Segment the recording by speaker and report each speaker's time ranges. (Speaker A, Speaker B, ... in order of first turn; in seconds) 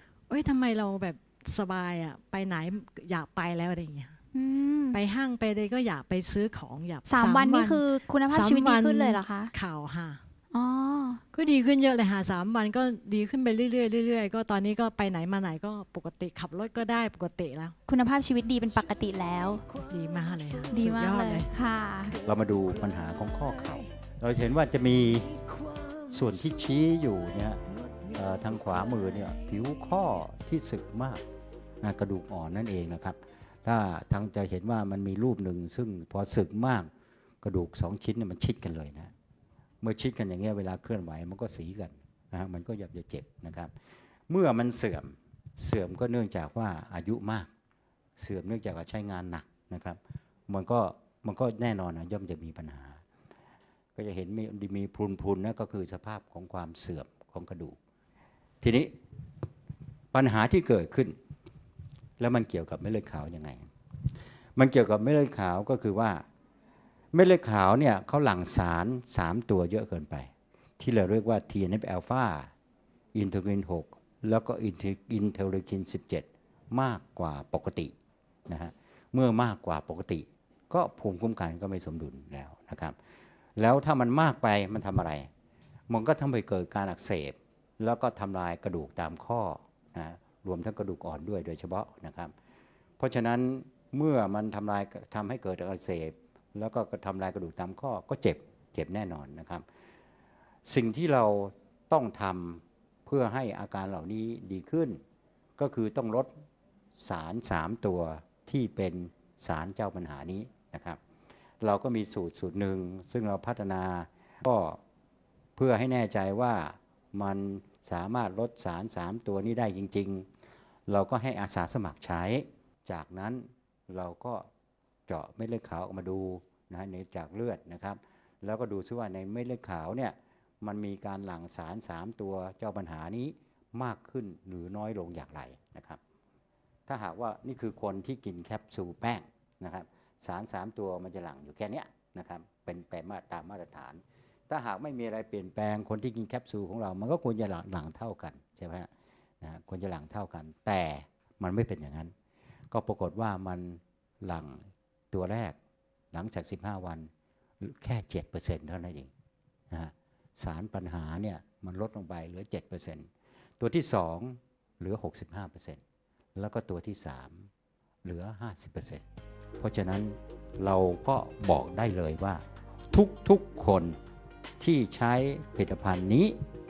Speaker A: 0.3-4.2, 4.9-10.2, 11.3-17.8, 19.8-21.5
Speaker B: 4.3-5.0, 7.1-9.5, 10.5-11.2, 17.9-19.6, 20.7-22.2
Speaker C: 22.3-25.3, 26.1-27.6, 28.1-31.2, 31.8-36.9, 37.4-39.1, 39.8-43.7, 44.3-47.5, 48.2-53.0, 54.0-57.8, 58.6-58.9, 60.1-61.2, 62.2-63.6, 64.6-66.2, 67.1-72.5, 73.1-77.9, 78.5-83.0, 83.6-85.3, 85.9-92.3, 93.0-99.7, 100.7-105.0, 105.6-106.3, 107.0-111.0, 111.6-114.8, 115.6-120.3, 120.9-124.5, 125.1-136.0, 136.9-148.9, 149.4-152.1, 152.7-155.6, 156.1-157.1, 157.6-159.1, 159.7-163.1, 163.6-165.8, 166.4-167.5, 168.0-169.0, 169.6-174.0, 174.6-176.4